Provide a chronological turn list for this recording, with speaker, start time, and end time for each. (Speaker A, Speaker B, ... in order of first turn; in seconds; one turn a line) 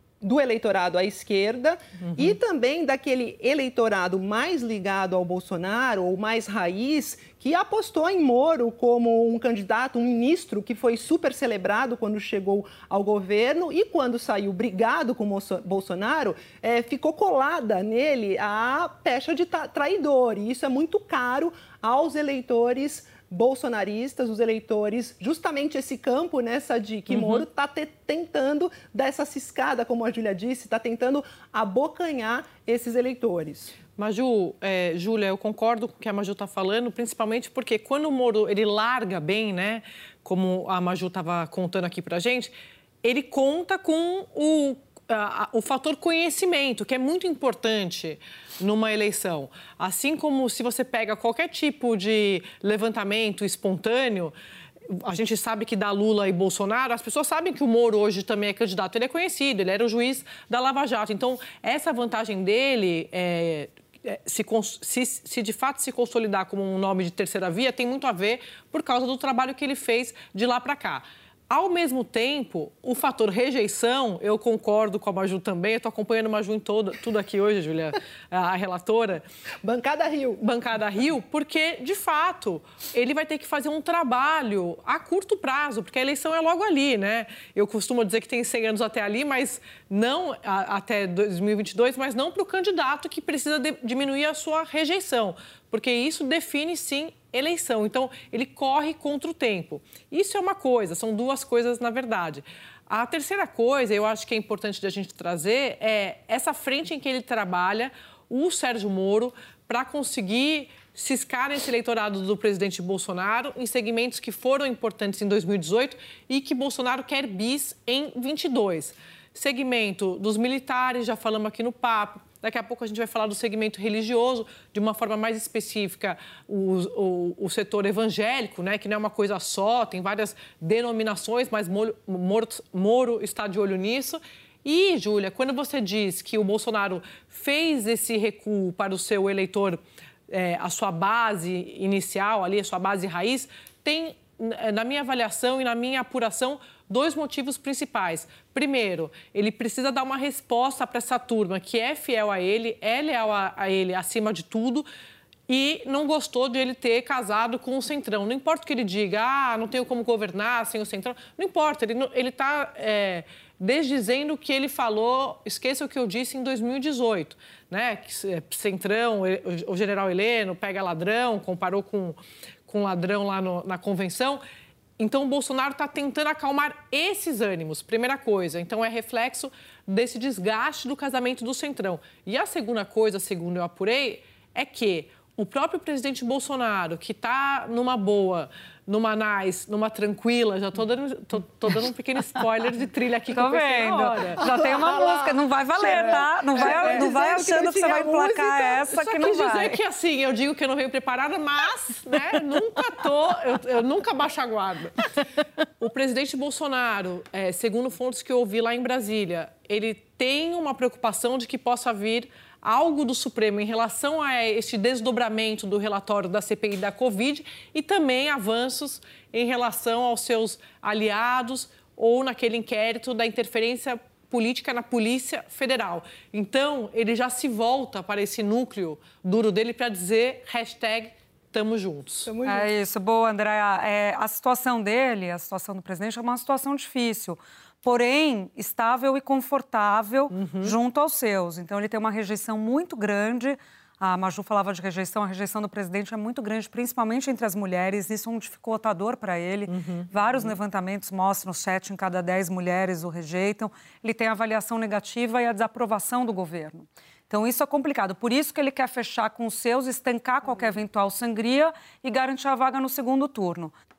Speaker A: 0.2-33.8
Speaker B: 2.0-2.3
Speaker B: 27.1-27.4
Speaker B: 34.0-42.5
Speaker B: 43.0-54.4
Speaker B: 54.9-79.2
Speaker A: 79.6-80.4
Speaker B: 80.4-154.9
Speaker B: 155.5-174.4
Speaker B: 175.0-194.4
Speaker C: 193.3-199.8
Speaker A: 194.4-198.6
Speaker B: 196.6-197.2
Speaker B: 198.4-205.2
Speaker B: 205.8-232.3
Speaker A: 232.3-232.7
Speaker C: 232.4-263.7
Speaker B: 240.3-240.8
Speaker B: 249.7-250.5